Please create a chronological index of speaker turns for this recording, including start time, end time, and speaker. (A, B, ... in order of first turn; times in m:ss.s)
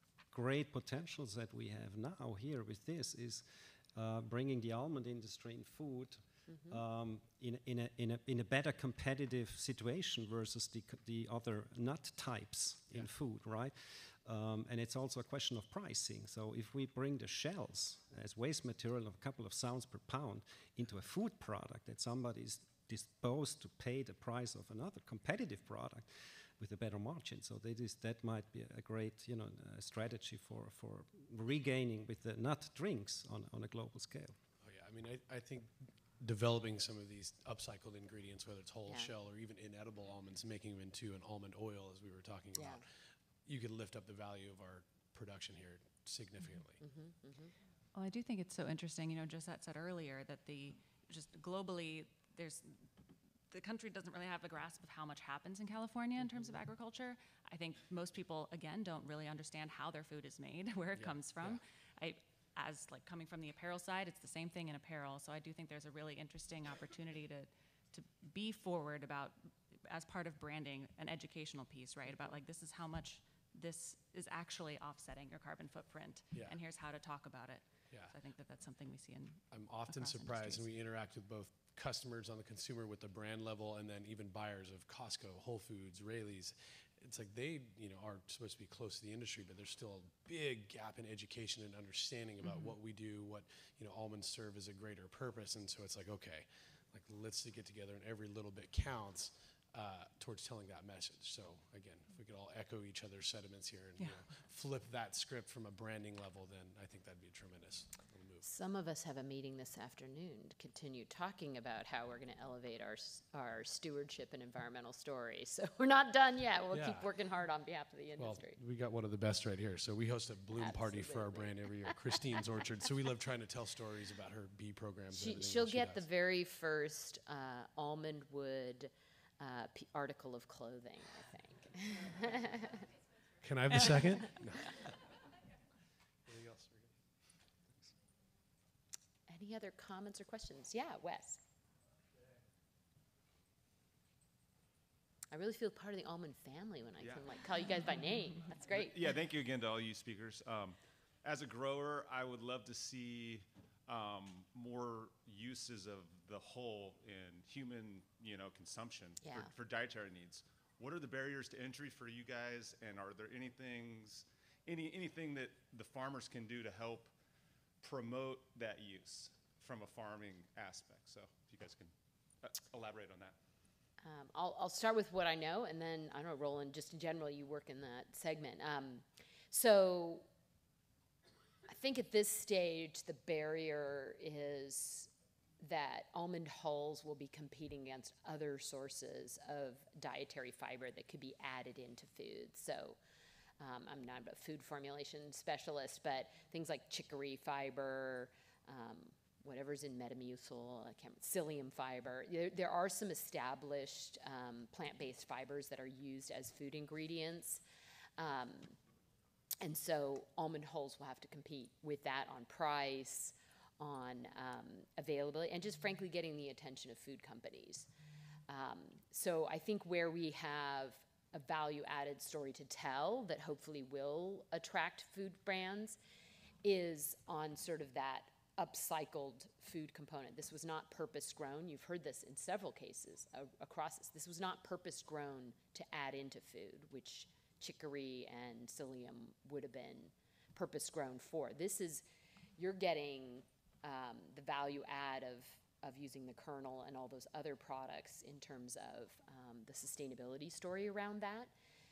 0:00.3-0:34.4 A
0:06.5-0:06.8 B
0:34.6-0:42.9 C
0:38.9-0:39.1 B
0:42.6-0:42.8 B
0:43.4-0:46.8 C
0:46.8-0:47.5 B
0:47.9-0:52.8 D
0:53.5-1:20.7 D
1:00.9-1:01.6 C
1:16.3-1:16.6 C
1:19.5-1:48.5 C
1:44.0-1:44.3 D
1:48.4-1:58.6 B
1:56.7-1:57.1 C
1:58.2-2:06.1 C
2:00.6-2:01.9 B
2:05.1-2:12.8 B
2:13.4-2:14.8 C
2:13.7-2:14.3 D
2:16.3-2:16.9 C
2:19.3-2:21.4 B
2:25.3-2:29.0 B
2:27.0-2:27.3 E
2:28.7-2:47.1 E
2:39.2-2:39.5 B
2:47.8-2:53.4 E
2:54.0-3:00.3 B
3:01.7-3:05.1 B
3:05.6-3:13.0 B
3:13.6-3:27.6 B
3:28.2-3:28.8 B
3:29.6-3:37.9 B
3:38.5-3:46.0 B
3:46.6-4:02.0 B
4:02.6-4:11.5 B